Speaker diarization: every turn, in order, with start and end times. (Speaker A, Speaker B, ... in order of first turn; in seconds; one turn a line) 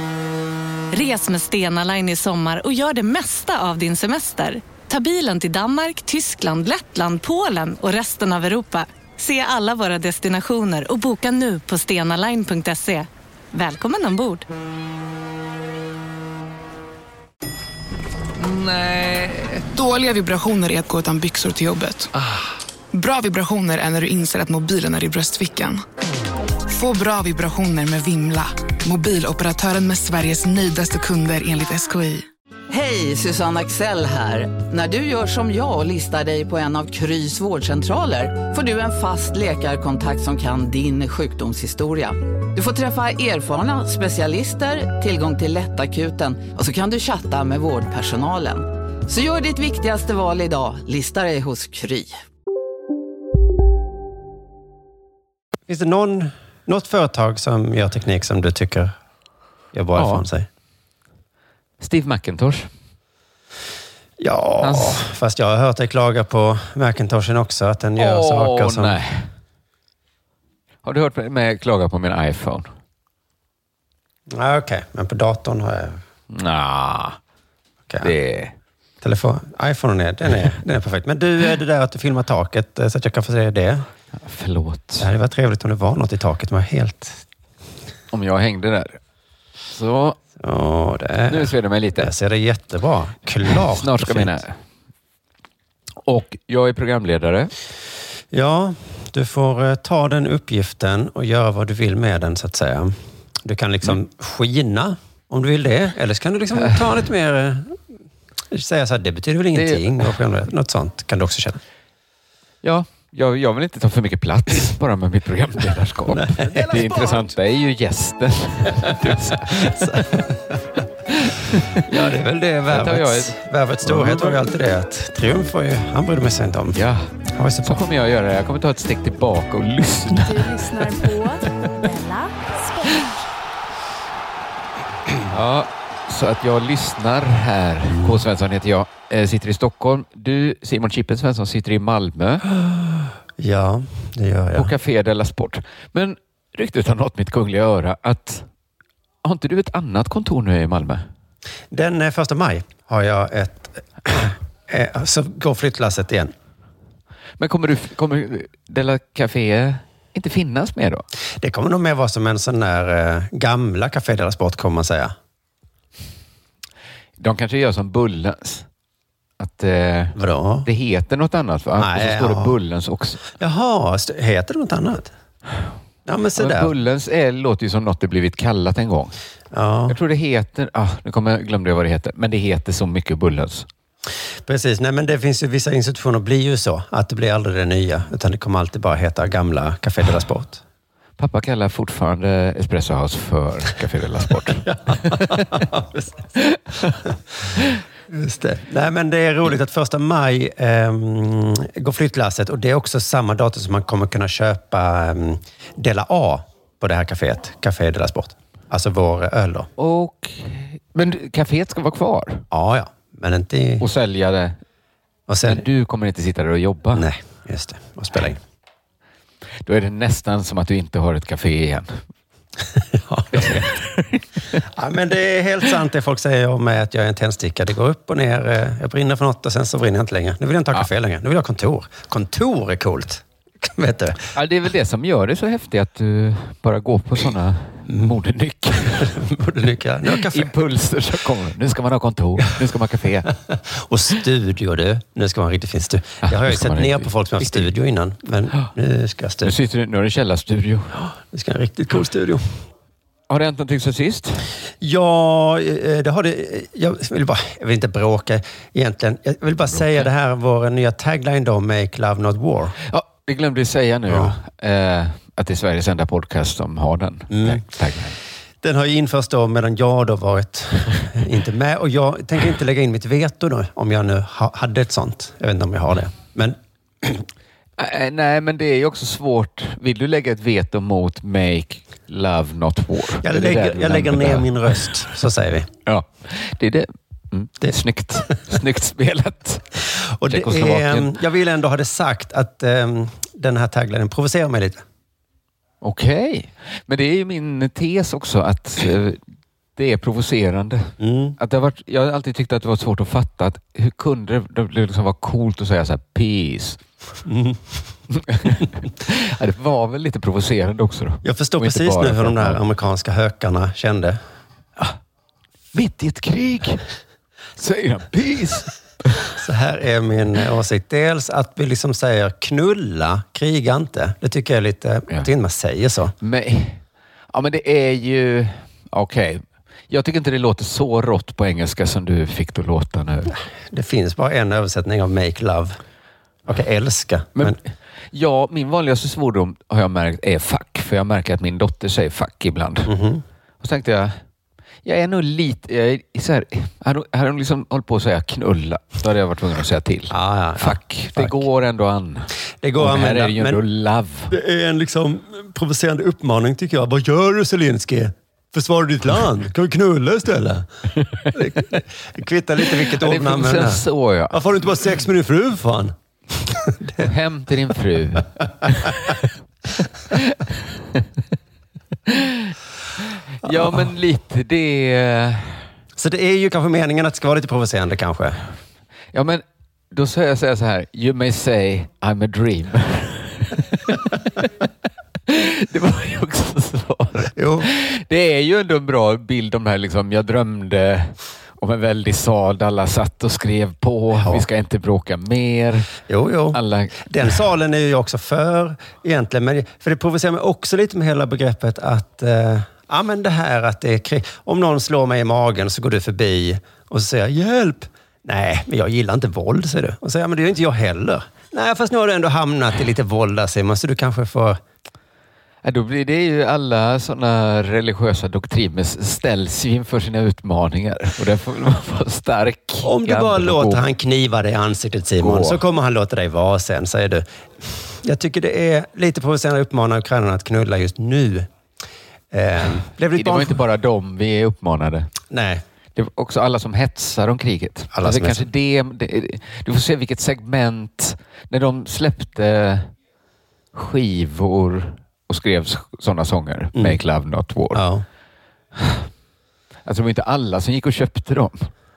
Speaker A: 0.9-14.4
Speaker B: 18.4-22.1
Speaker B: 22.9-25.8
Speaker B: 26.7-32.2
Speaker C: 32.7-52.1
Speaker D: 55.7-58.9
Speaker D: 59.7-60.5
Speaker E: 60.0-60.2
Speaker E: 61.8-62.7
Speaker D: 64.2-69.0
Speaker E: 64.6-65.0
Speaker E: 68.0-69.3
Speaker E: 70.8-72.7
Speaker D: 74.3-76.0
Speaker E: 76.3-77.2
Speaker E: 78.0-78.5
Speaker D: 79.0-83.8
Speaker E: 84.1-85.1
Speaker D: 85.0-87.2
Speaker E: 88.1-89.0
Speaker E: 89.7-90.2
Speaker D: 90.4-94.4
Speaker E: 91.3-92.1
Speaker E: 93.5-94.6
Speaker E: 96.0-97.5
Speaker D: 98.3-107.8
Speaker E: 106.5-106.9
Speaker D: 108.5-111.6
Speaker E: 109.5-110.1
Speaker E: 112.6-120.1
Speaker D: 116.1-117.3
Speaker D: 119.0-120.7
Speaker E: 121.1-121.8
Speaker D: 121.8-126.8
Speaker E: 122.7-124.4
Speaker E: 126.7-130.5
Speaker D: 127.3-127.9
Speaker F: 130.2-133.1
Speaker E: 135.3-142.4
Speaker D: 137.9-138.2
Speaker D: 142.5-144.7
Speaker E: 144.5-148.5
Speaker E: 149.2-151.0
Speaker D: 151.7-156.3
Speaker E: 157.4-161.0
Speaker D: 161.4-165.1
Speaker E: 167.2-168.7
Speaker E: 169.4-173.2
Speaker D: 170.2-170.7
Speaker D: 171.8-172.6
Speaker D: 173.3-175.1
Speaker D: 176.1-176.7
Speaker E: 176.3-179.1
Speaker D: 179.5-179.9
Speaker E: 179.9-183.7
Speaker D: 184.4-190.6
Speaker E: 191.2-195.6
Speaker D: 194.7-196.3
Speaker E: 196.4-197.1
Speaker D: 198.1-209.7
Speaker E: 209.8-212.4
Speaker D: 212.5-213.8
Speaker E: 213.8-214.6
Speaker D: 215.3-215.6
Speaker E: 215.4-217.1
Speaker D: 216.9-218.4
Speaker E: 219.7-222.0
Speaker D: 222.8-223.7
Speaker E: 223.4-224.6
Speaker D: 224.7-234.2
Speaker E: 234.3-239.1
Speaker D: 237.9-238.2
Speaker D: 238.9-240.5
Speaker E: 240.1-243.3
Speaker D: 243.5-249.5
Speaker E: 246.2-247.7
Speaker E: 249.4-251.1
Speaker D: 251.0-252.6
Speaker E: 253.3-254.5
Speaker D: 254.8-262.8
Speaker E: 259.7-260.1
Speaker E: 262.8-268.1
Speaker D: 264.1-264.3
Speaker D: 267.3-267.6
Speaker D: 268.6-277.3
Speaker E: 277.8-284.9
Speaker D: 283.2-285.7
Speaker E: 285.9-291.1
Speaker D: 290.0-294.8
Speaker E: 295.8-299.2
Speaker E: 299.8-306.8
Speaker D: 301.0-301.4
Speaker D: 307.2-307.8
Speaker E: 308.1-312.6
Speaker D: 311.2-314.2
Speaker E: 315.7-316.8
Speaker E: 317.6-319.3
Speaker D: 319.3-326.1
Speaker E: 326.2-333.3
Speaker D: 333.3-335.8
Speaker D: 336.4-337.6
Speaker E: 337.3-342.9
Speaker D: 342.9-343.2
Speaker E: 343.6-344.2
Speaker E: 344.8-354.3
Speaker D: 350.1-351.3
Speaker D: 352.6-353.6
Speaker D: 354.3-360.7
Speaker E: 361.0-361.7
Speaker D: 361.3-367.1
Speaker E: 362.7-364.4
Speaker E: 367.0-369.1
Speaker E: 370.1-371.0
Speaker E: 372.1-372.5
Speaker E: 373.4-375.7
Speaker D: 373.4-373.8
Speaker D: 376.0-378.4
Speaker E: 379.1-384.5
Speaker E: 385.3-395.9
Speaker D: 387.3-387.7
Speaker D: 394.1-394.4
Speaker D: 396.1-414.6
Speaker E: 396.5-397.1
Speaker E: 415.6-423.8
Speaker D: 422.8-431.5
Speaker E: 425.2-425.6
Speaker D: 432.3-433.6
Speaker E: 433.1-435.1
Speaker D: 435.3-435.6
Speaker E: 435.9-442.9
Speaker D: 437.9-438.5
Speaker E: 443.7-447.8
Speaker D: 447.7-448.0
Speaker E: 448.8-449.0
Speaker E: 449.9-451.7